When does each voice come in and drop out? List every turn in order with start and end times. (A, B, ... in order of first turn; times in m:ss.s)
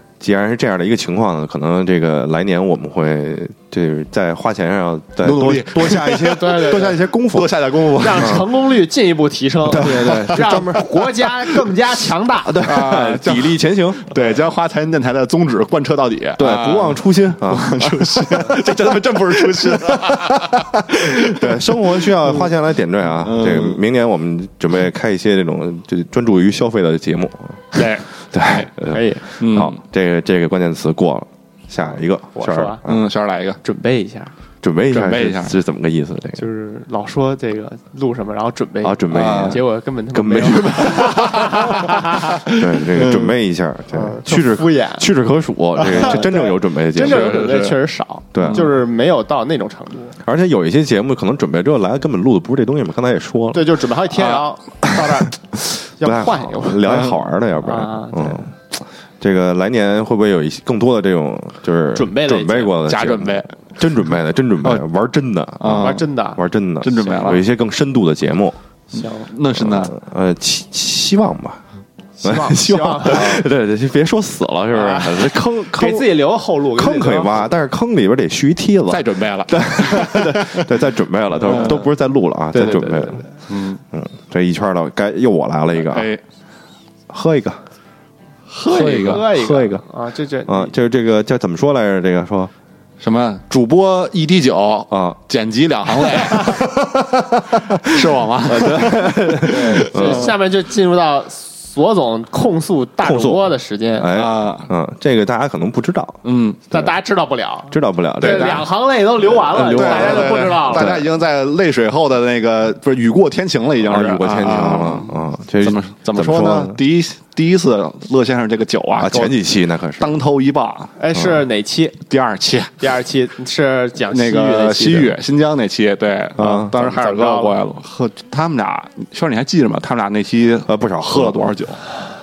0:00.2-0:08.4 A
0:05.2-0:08.4 B
0:06.4-0:07.0 C
0:08.0-0:12.7 C
0:09.7-0:10.7 A
0:09.7-0:11.0 B
0:12.5-0:14.0 A
0:12.6-0:22.3 B
0:16.4-0:18.6 A
0:19.4-0:33.0 A
0:23.2-0:23.8 B
0:27.8-0:28.7 B
0:28.9-0:29.2 C
0:29.4-0:29.8 B
0:32.4-0:32.8 C
0:32.9-0:33.6 B
0:33.6-0:34.3 C
0:34.6-0:36.4 A
0:34.9-0:35.6 B
0:36.4-0:42.4 C
0:38.8-0:39.6 A
0:39.1-0:39.6 B
0:40.1-0:41.8 A
0:40.8-0:41.7 B
0:42.4-0:43.3 B
0:42.5-0:47.4 A
0:43.9-0:45.1 C
0:45.8-0:50.2 C
0:47.0-0:47.8 B
0:48.3-0:48.7 A
0:48.4-0:48.7 B
0:50.2-0:53.7 A
0:53.5-0:57.0 C
0:54.2-0:54.4 B
0:56.0-0:58.7 A
0:57.6-0:58.5 C
0:59.2-1:08.6 A
1:01.9-1:02.8 C
1:02.8-1:03.6 B
1:05.6-1:06.1 B
1:05.8-1:06.4 C
1:06.8-1:07.4 B
1:08.9-1:09.3 C
1:09.0-1:10.0 B
1:09.6-1:11.6 A
1:12.2-1:13.4 C
1:12.2-1:23.3 A
1:13.1-1:13.4 B
1:14.7-1:17.5 C
1:18.9-1:20.7 B
1:21.4-1:21.9 B
1:22.5-1:23.3 C
1:23.5-1:23.8 B
1:23.9-1:26.1 A
1:25.8-1:26.2 B
1:27.1-1:27.6 A
1:28.5-1:29.2 B
1:28.6-1:30.7 C
1:28.7-1:29.8 A
1:30.5-1:32.5 A
1:33.0-1:36.8 B
1:34.9-1:35.2 A
1:36.4-1:40.3 A
1:37.8-1:40.3 B
1:39.4-1:44.1 C
1:43.0-1:46.2 A
1:44.1-1:44.7 B
1:46.2-1:46.6 B
1:46.7-1:51.0 C
1:47.7-1:48.7 A
1:48.2-1:48.7 B
1:49.3-1:51.1 A
1:49.6-1:59.4 B
1:53.8-1:56.8 A
1:59.0-2:00.2 A
2:00.0-2:00.9 B
2:01.0-2:02.0 C
2:01.2-2:01.4 A
2:02.1-2:02.7 B
2:02.8-2:05.1 C
2:04.1-2:11.8 B
2:06.4-2:06.7 A
2:06.7-2:07.6 C
2:10.7-2:11.4 A